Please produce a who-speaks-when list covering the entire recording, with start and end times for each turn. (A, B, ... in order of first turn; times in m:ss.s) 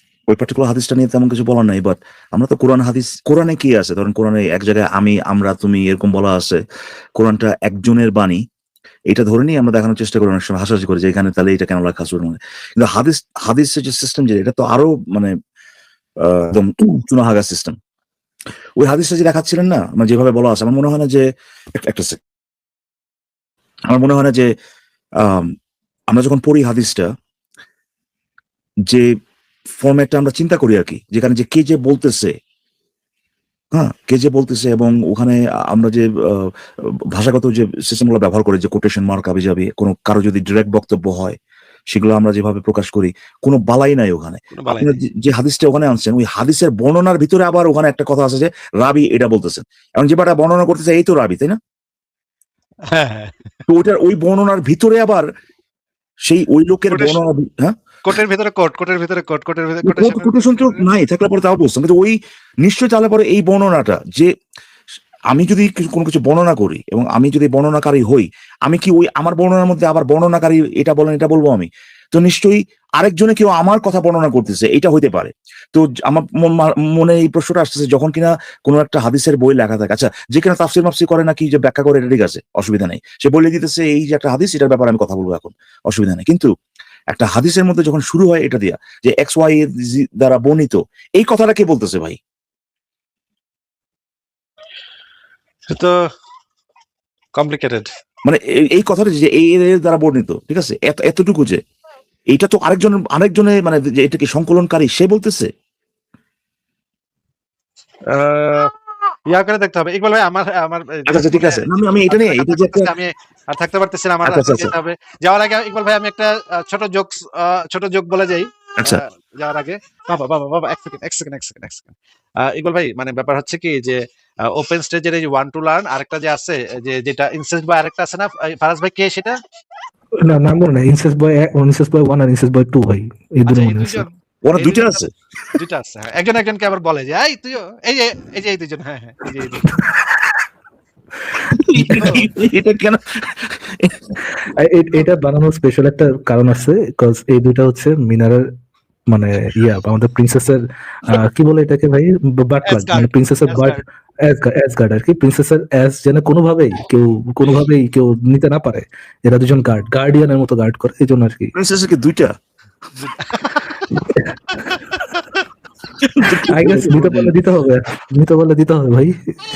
0:00.3-0:06.6 A
0:07.2-0:08.4 A
0:09.1-0:15.3 A
0:16.2-0:17.8 A
0:18.8-0:22.2 A
0:23.9-0:24.5 A
0:25.2-0:25.5 A
0:26.1-0:27.1 A
0:29.8-0:32.3 A
0:33.7-0:36.5 A
0:37.1-0:41.4 A
0:41.9-0:51.6 A
0:44.5-0:44.9 B
0:52.9-0:53.3 B
0:53.7-0:55.2 A
0:56.3-0:57.8 A
0:56.9-0:57.2 B
0:58.0-1:00.8 B
0:59.8-1:04.3 A
1:05.3-1:26.5 A
1:27.1-1:32.2 A
1:37.3-1:37.9 B
1:38.2-1:41.6 A
1:42.3-1:45.5 A
1:48.1-1:48.7 B
1:49.3-2:09.4 B
1:51.1-1:52.9 A
1:54.2-1:54.7 A
2:10.2-2:14.0 C
2:13.4-2:19.6 B
2:14.4-2:15.1 A
2:21.6-2:24.1 A
2:24.6-2:28.4 C
2:29.1-2:30.6 C
2:31.1-2:41.5 C
2:32.6-2:33.8 B
2:41.5-2:42.3 A
2:43.0-2:43.8 B
2:46.2-2:47.3 A
2:46.5-2:49.2 C